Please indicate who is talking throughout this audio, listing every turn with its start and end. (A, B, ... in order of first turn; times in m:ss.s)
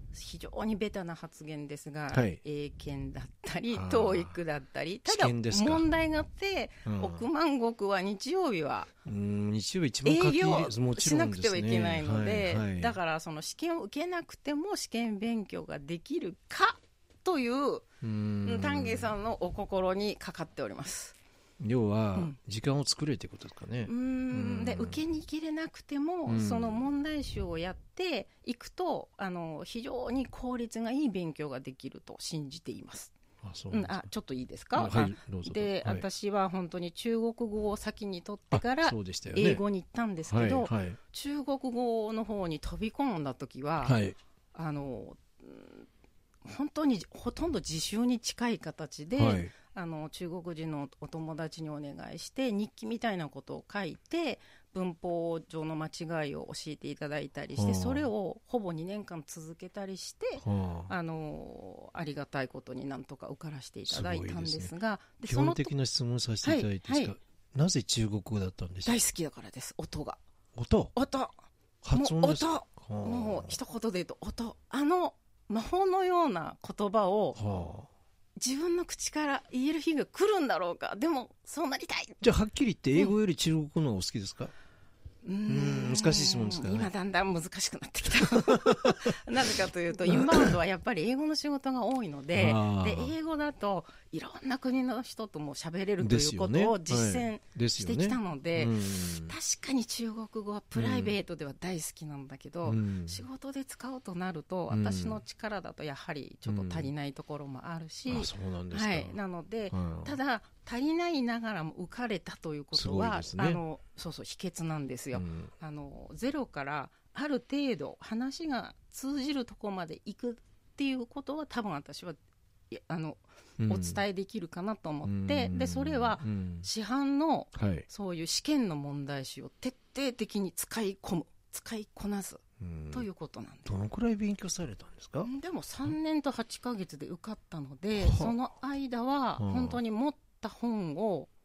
0:00.1-0:08.9 A
0:02.1-0:02.4 B
0:03.7-0:04.4 B
0:05.1-0:05.9 B
0:06.8-0:07.3 B
0:09.0-0:13.0 B
0:10.0-0:17.9 A
0:18.0-0:19.1 B
0:18.4-0:21.2 A
0:21.6-0:25.0 B
0:23.8-0:33.1 A
0:26.3-0:26.9 B
0:33.4-0:34.0 B
0:33.7-0:44.0 A
0:34.7-0:36.0 B
0:38.5-0:39.6 B
0:40.3-0:41.0 B
0:43.8-0:44.2 B
0:44.5-0:45.9 A
0:46.4-1:05.7 A
0:49.2-0:49.5 B
0:57.6-0:58.1 B
1:00.4-1:00.9 B
1:03.9-1:04.7 B
1:05.3-1:09.0 B
1:06.4-1:07.1 A
1:08.8-1:10.2 A
1:10.6-1:10.9 B
1:11.0-1:11.3 A
1:11.8-1:13.6 B
1:11.9-1:17.4 A
1:17.4-1:17.9 B
1:18.4-1:22.2 A
1:22.2-1:24.5 B
1:25.2-2:02.2 A
1:25.5-1:26.9 B
1:28.2-1:29.3 B
1:30.1-1:30.6 B
1:32.4-1:33.1 B
1:36.0-1:39.4 B
1:40.8-1:41.2 B
1:42.6-1:43.2 B
1:44.7-1:45.2 B
1:46.5-1:46.9 B
1:48.1-1:49.2 B
1:49.7-1:50.2 B
1:52.7-1:53.6 B
1:55.1-1:55.5 B
2:02.7-2:13.8 A
2:03.6-2:04.0 B
2:05.0-2:06.7 B
2:07.6-2:07.9 B
2:12.6-2:13.1 B
2:13.7-2:15.3 B
2:15.2-2:21.3 A
2:18.0-2:18.4 B
2:19.4-2:19.8 B